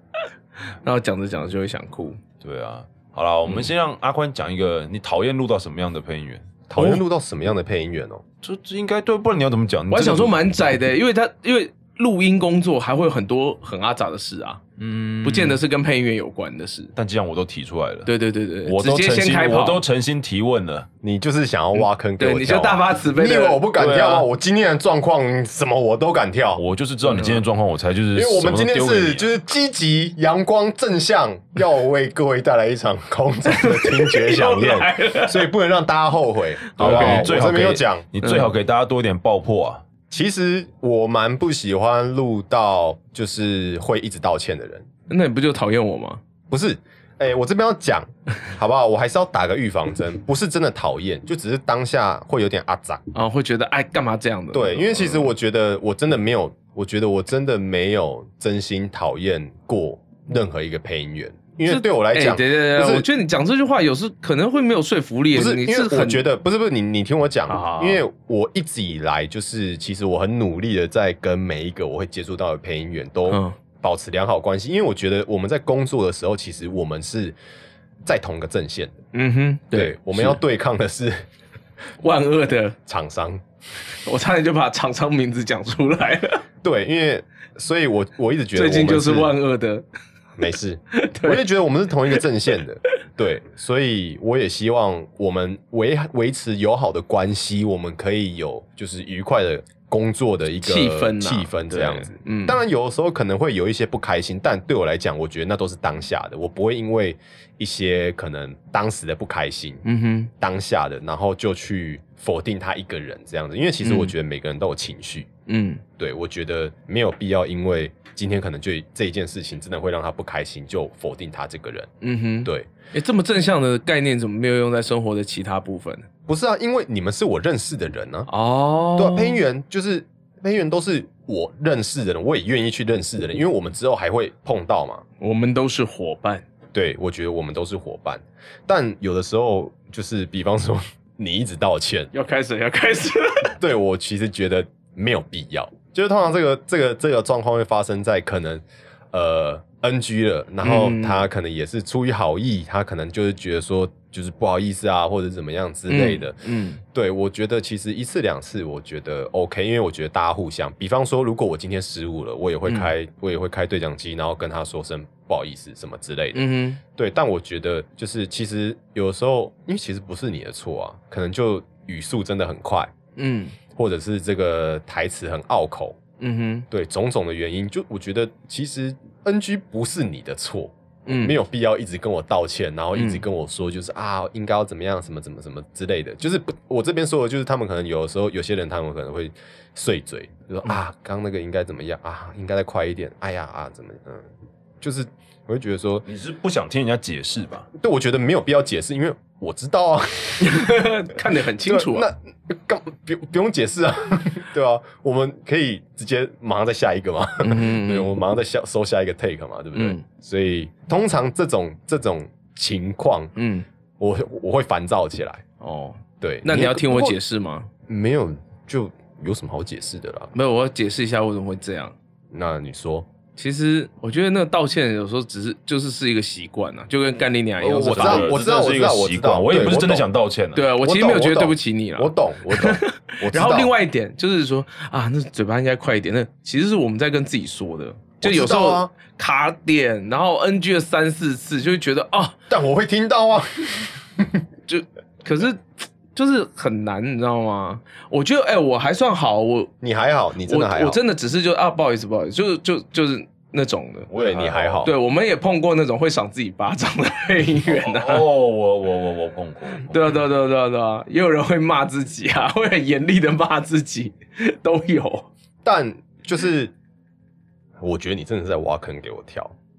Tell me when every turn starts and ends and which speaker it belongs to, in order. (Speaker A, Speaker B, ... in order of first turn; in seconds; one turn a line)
Speaker A: 0.8-2.2
Speaker B: 2.4-6.5
Speaker C: 6.7-8.2
Speaker A: 6.8-7.0
Speaker B: 8.4-10.3
Speaker A: 9.9-14.6
Speaker B: 14.8-15.6
Speaker A: 15.2-16.9
Speaker B: 16.9-18.1
Speaker A: 18.1-19.8
Speaker B: 18.6-20.9
Speaker C: 21.0-26.6
Speaker A: 22.2-24.1
Speaker B: 23.8-24.2
Speaker B: 26.6-29.3
Speaker A: 27.0-27.4
Speaker C: 28.1-38.1
Speaker A: 33.5-35.5
Speaker A: 36.7-37.3
Speaker B: 36.8-39.8
Speaker A: 38.2-38.5
Speaker C: 40.1-44.9
Speaker A: 45.1-46.2
Speaker C: 46.5-53.0
Speaker A: 53.1-55.3
Speaker C: 54.5-63.1
Speaker A: 61.6-66.2
Speaker C: 65.3-77.3
Speaker A: 67.5-68.0
Speaker A: 73.3-73.5
Speaker C: 78.0-78.9
Speaker A: 79.1-80.4
Speaker C: 79.7-81.2
Speaker A: 82.0-82.8
Speaker C: 82.8-83.4
Speaker A: 84.0-86.4
Speaker C: 86.6-89.3
Speaker A: 88.5-89.8
Speaker C: 90.4-109.8
Speaker A: 90.9-91.5
Speaker A: 100.6-102.6
Speaker A: 109.8-110.3
Speaker C: 110.4-115.3
Speaker A: 113.8-114.1
Speaker A: 115.5-115.8
Speaker C: 116.0-121.9
Speaker A: 122.0-126.0
Speaker C: 122.4-122.7
Speaker C: 126.3-128.3
Speaker A: 128.3-129.4
Speaker C: 128.9-135.0
Speaker A: 135.2-136.4
Speaker C: 136.7-142.1
Speaker A: 142.1-143.5
Speaker C: 143.6-172.9
Speaker A: 150.6-151.2
Speaker A: 155.9-156.8
Speaker A: 166.3-166.8
Speaker A: 173.2-173.6
Speaker C: 173.7-176.0
Speaker A: 176.2-176.7
Speaker C: 176.7-194.2
Speaker A: 181.1-181.4
Speaker A: 182.9-183.2
Speaker C: 194.8-196.0
Speaker B: 196.1-197.7
Speaker C: 197.8-200.8
Speaker A: 200.4-202.1
Speaker C: 201.6-213.3
Speaker A: 207.4-208.1
Speaker A: 209.7-210.0
Speaker A: 213.3-213.7
Speaker C: 214.0-215.4
Speaker A: 215.6-217.7
Speaker C: 216.2-217.2
Speaker C: 217.9-220.3
Speaker A: 220.3-221.9
Speaker C: 222.3-223.1
Speaker A: 223.3-228.4
Speaker C: 227.6-230.1
Speaker B: 227.8-230.7
Speaker A: 230.5-242.4
Speaker C: 230.8-233.7
Speaker C: 238.2-238.9
Speaker C: 242.5-244.4
Speaker A: 244.7-249.7
Speaker C: 249.8-251.0
Speaker A: 250.4-254.1
Speaker B: 254.1-254.9
Speaker C: 254.1-254.9
Speaker A: 254.8-258.3
Speaker B: 257.7-260.1
Speaker A: 259.9-265.3
Speaker C: 265.6-266.7
Speaker C: 267.8-269.5